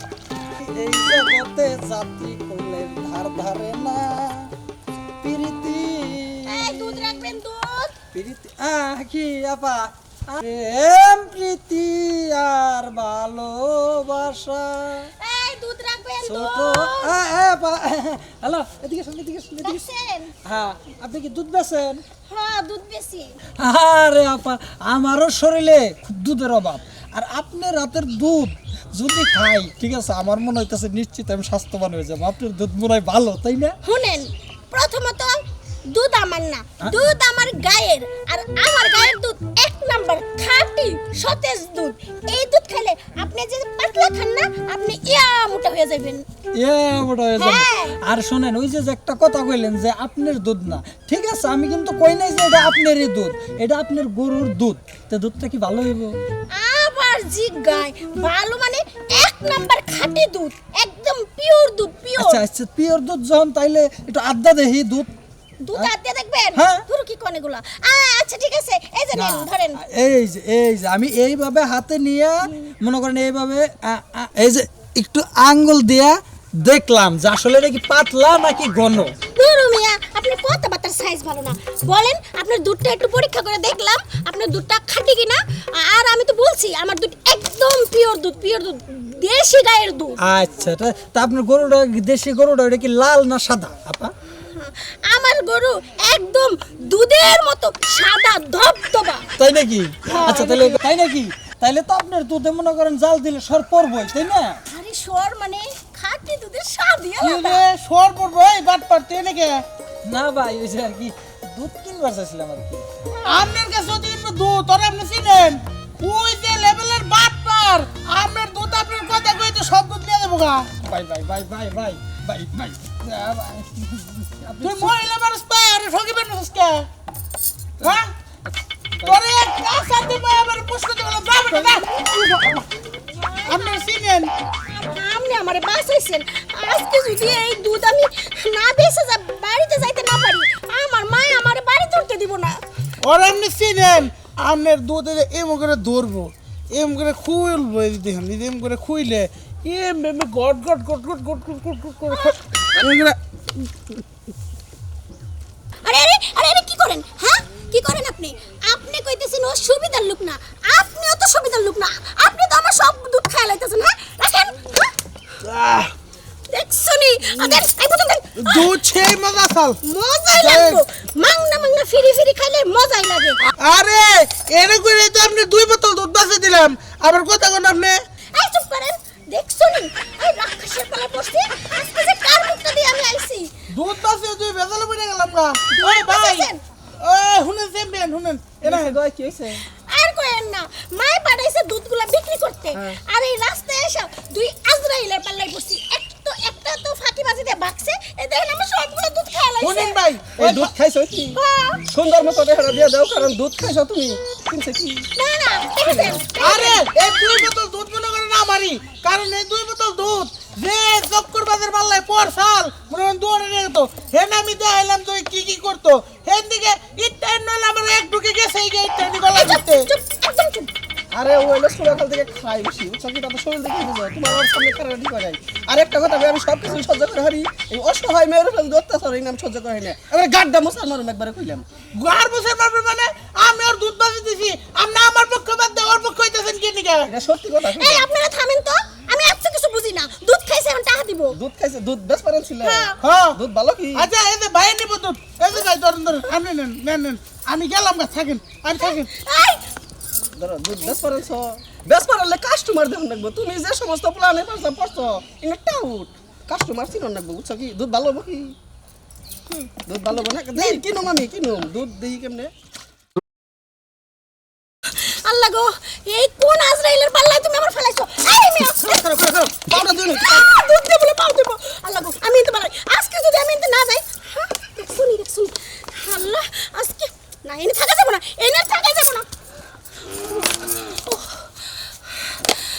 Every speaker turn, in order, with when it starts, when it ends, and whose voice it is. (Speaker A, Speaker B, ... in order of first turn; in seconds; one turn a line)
Speaker A: 0.6-4.5
Speaker A: 5.2-7.2
Speaker B: 6.5-7.9
Speaker A: 8.1-15.1
Speaker B: 15.2-17.2
Speaker A: 16.2-19.8
Speaker B: 19.6-20.3
Speaker A: 20.4-22.0
Speaker B: 22.3-23.4
Speaker A: 23.6-33.8
Speaker B: 33.8-46.2
Speaker A: 46.6-56.2
Speaker B: 47.4-48.0
Speaker B: 56.5-62.4
Speaker A: 62.2-65.1
Speaker B: 65.6-69.8
Speaker A: 66.5-66.8
Speaker A: 69.1-79.1
Speaker B: 79.3-90.2
Speaker A: 90.2-94.1
Speaker B: 94.5-99.2
Speaker A: 99.4-104.6
Speaker B: 104.7-107.6
Speaker C: 107.2-109.6
Speaker A: 110.0-112.8
Speaker C: 113.3-120.7
Speaker A: 120.8-124.9
Speaker C: 124.6-126.9
Speaker C: 127.8-128.1
Speaker C: 129.0-132.7
Speaker B: 131.6-132.1
Speaker B: 133.4-133.8
Speaker C: 133.5-134.3
Speaker B: 134.7-142.6
Speaker C: 143.0-153.2
Speaker B: 155.8-164.9
Speaker C: 165.4-165.9
Speaker B: 166.5-168.7
Speaker C: 168.4-169.8
Speaker B: 169.8-173.4
Speaker C: 170.3-170.8
Speaker C: 173.6-178.0
Speaker B: 178.3-183.5
Speaker C: 183.7-189.0
Speaker B: 185.7-186.6
Speaker D: 188.6-189.6
Speaker B: 189.9-200.0
Speaker C: 199.6-200.7
Speaker D: 200.4-205.1
Speaker B: 201.3-201.8
Speaker B: 205.2-207.4
Speaker C: 206.4-219.9
Speaker B: 219.3-220.7
Speaker D: 221.1-231.7
Speaker C: 231.9-237.1
Speaker D: 237.1-238.1
Speaker B: 237.6-241.4
Speaker D: 241.3-244.1
Speaker B: 242.6-243.0
Speaker C: 243.0-243.4
Speaker C: 243.9-249.1
Speaker B: 248.8-249.6
Speaker D: 250.4-258.6
Speaker D: 259.9-262.5
Speaker B: 264.9-279.3
Speaker D: 269.1-270.5
Speaker B: 280.3-281.5
Speaker B: 282.3-282.6